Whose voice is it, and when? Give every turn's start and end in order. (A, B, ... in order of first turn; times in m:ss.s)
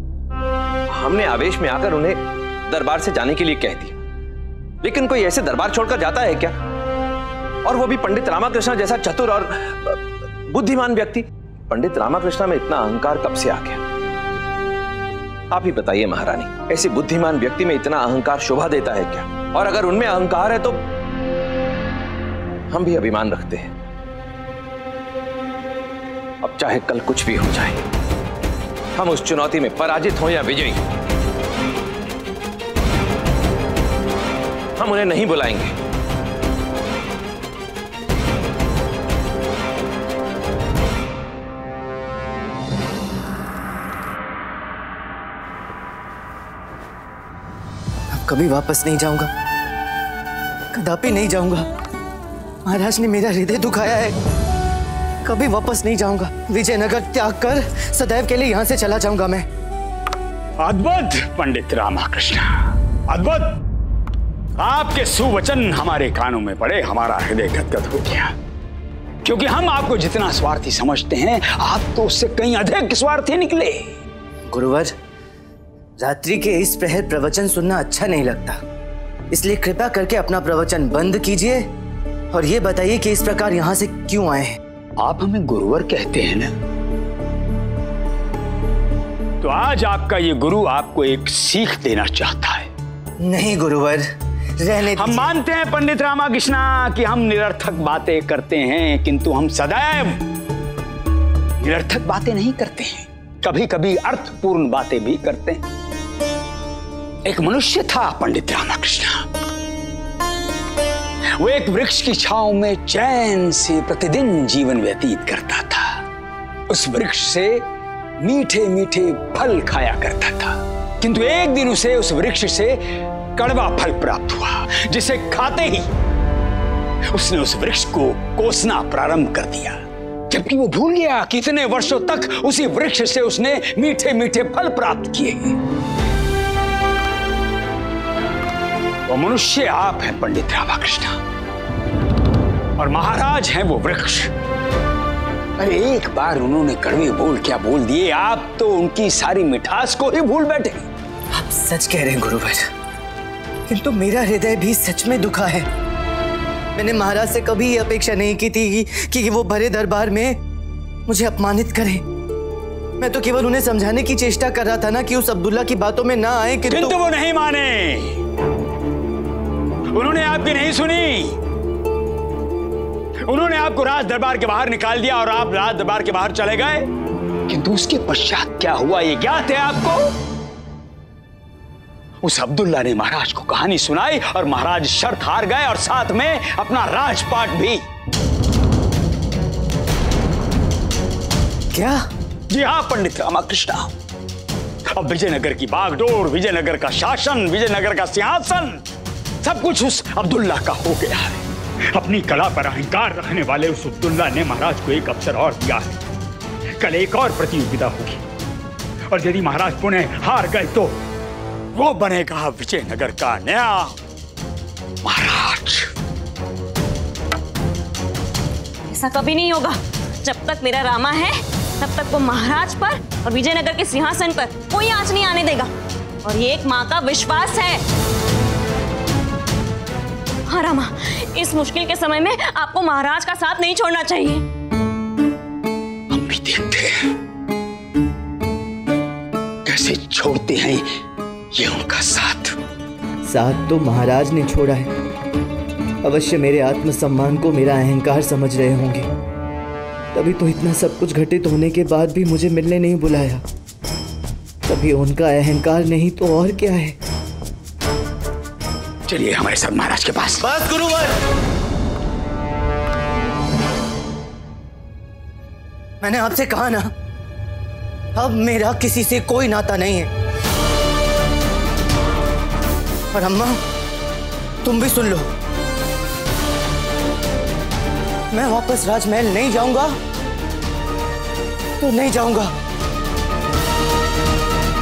0:00.9-0:04.0 A
0:04.8-0:06.5 A
0:07.6-0:13.8 A
0:15.5-0:20.8 A
0:22.7-0:23.7 A
0:26.4-0:27.8 A
0:28.9-0:30.8 A
0:34.8-0:35.7 A
0:48.1-0:49.3 B
0:50.7-0:51.6 B
0:52.6-0:54.2 B
0:55.2-0:59.4 B
1:00.6-1:03.6 C
1:04.6-1:08.3 C
1:09.2-1:13.9 C
1:14.5-1:14.9 B
1:16.0-1:18.6 B
1:19.3-1:21.6 B
1:22.3-1:24.5 B
1:25.0-1:26.5 C
1:29.4-1:32.7 C
1:33.2-1:34.0 B
1:34.6-1:35.3 B
1:35.0-1:40.2 C
1:41.6-1:45.6 C
1:47.2-1:49.2 C
1:51.4-1:55.9 C
1:56.7-1:57.6 C
1:58.2-2:02.8 C
2:03.4-2:05.9 C
2:07.1-2:09.8 C
2:10.3-2:15.6 C
2:19.1-2:21.2 C
2:22.8-2:24.3 C
2:25.6-2:30.9 C
2:31.3-2:32.6 B
2:33.7-2:35.7 B
2:36.8-2:40.4 B
2:41.1-2:42.0 B
2:43.0-2:47.0 B
2:46.7-2:48.2 C
2:49.9-2:51.4 C
2:53.2-2:56.8 C
2:57.5-3:00.1 C
3:02.2-3:07.8 C
3:11.7-3:12.0 B
3:12.5-3:13.9 C
3:15.0-3:18.8 C
3:19.4-3:21.4 C
3:22.0-3:26.0 C
3:26.8-3:28.2 C
3:29.1-3:31.0 C
3:31.7-3:34.0 C
3:35.0-3:35.9 C
3:38.9-3:45.7 D
3:46.2-3:47.8 D
3:50.5-3:54.4 D
3:56.1-3:57.0 C
3:59.6-4:00.8 C
4:01.5-4:02.5 C
4:03.3-4:04.9 B
4:06.0-4:09.1 B
4:10.1-4:13.4 B
4:14.6-4:17.0 B
4:19.1-4:20.4 C
4:20.4-4:21.1 B
4:26.0-4:26.9 B
4:28.2-4:30.1 B
4:33.1-4:33.6 B
4:34.6-4:35.3 B
4:38.3-4:39.9 B
4:41.8-4:42.5 B